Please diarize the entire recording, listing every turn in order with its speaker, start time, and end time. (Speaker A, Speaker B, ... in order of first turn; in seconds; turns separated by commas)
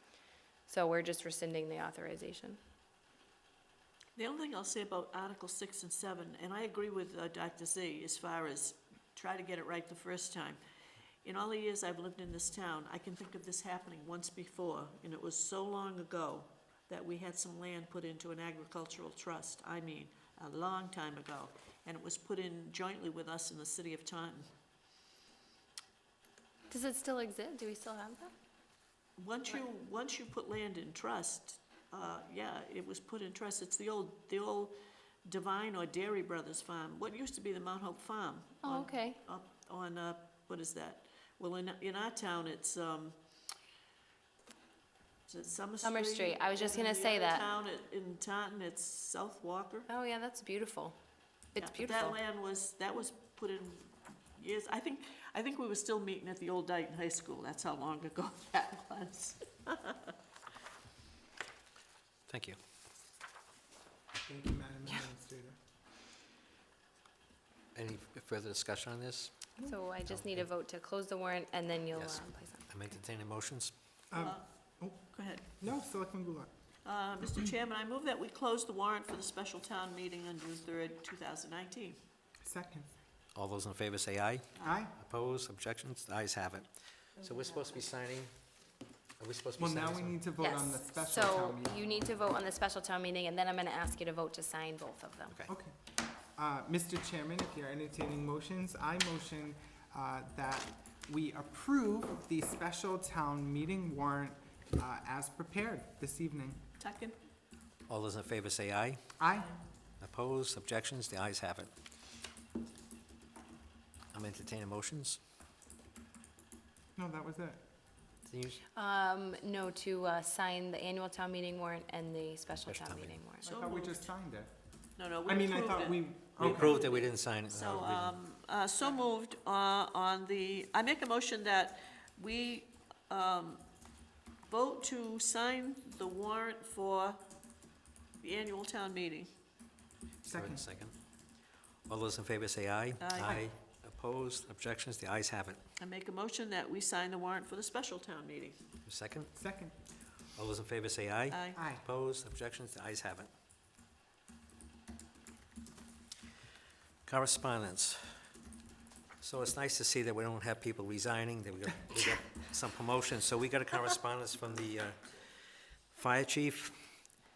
Speaker A: 0.7-2.6, Speaker B: 4.2-10.6, Speaker B: 11.2-24.5, Speaker A: 26.7-28.3, Speaker B: 29.2-43.1, Speaker A: 38.6-39.2, Speaker B: 45.3-49.9, Speaker A: 45.8-47.4, Speaker A: 49.9-51.0, Speaker A: 51.5-52.2, Speaker B: 51.6-60.1, Speaker C: 62.3-62.6, Speaker D: 64.2-65.6, Speaker C: 67.7-69.3, Speaker A: 69.6-72.7, Speaker C: 70.1-70.4, Speaker C: 71.9-73.7, Speaker D: 74.1-76.5, Speaker B: 74.2-74.4, Speaker B: 75.1-75.5, Speaker B: 76.8-82.0, Speaker D: 82.4-82.9, Speaker C: 83.3-86.7, Speaker D: 84.6-85.0, Speaker C: 87.2-88.3, Speaker C: 89.2-90.2, Speaker D: 89.6-91.8, Speaker A: 90.4-95.3, Speaker D: 95.5-95.7, Speaker D: 96.3-106.6, Speaker B: 106.8-107.2, Speaker C: 107.9-109.1, Speaker D: 109.2-109.6, Speaker C: 110.0-111.7, Speaker C: 114.1-115.2, Speaker D: 117.0-117.6, Speaker C: 118.2-118.6, Speaker A: 118.7-123.4, Speaker C: 122.7-123.1, Speaker D: 123.4-124.5, Speaker B: 123.4-124.1, Speaker B: 125.0-133.6, Speaker D: 125.2-126.8, Speaker C: 126.4-128.2, Speaker B: 134.4-137.2, Speaker B: 138.2-139.3, Speaker D: 140.2-140.6, Speaker C: 140.2-140.9, Speaker C: 141.9-145.6, Speaker B: 143.0-143.4, Speaker B: 145.8-148.6, Speaker C: 148.8-149.3, Speaker D: 149.3-149.7, Speaker C: 150.3-153.3, Speaker B: 151.3-151.6, Speaker D: 151.6-151.8, Speaker C: 157.1-158.0, Speaker C: 159.2-165.1, Speaker C: 165.9-166.7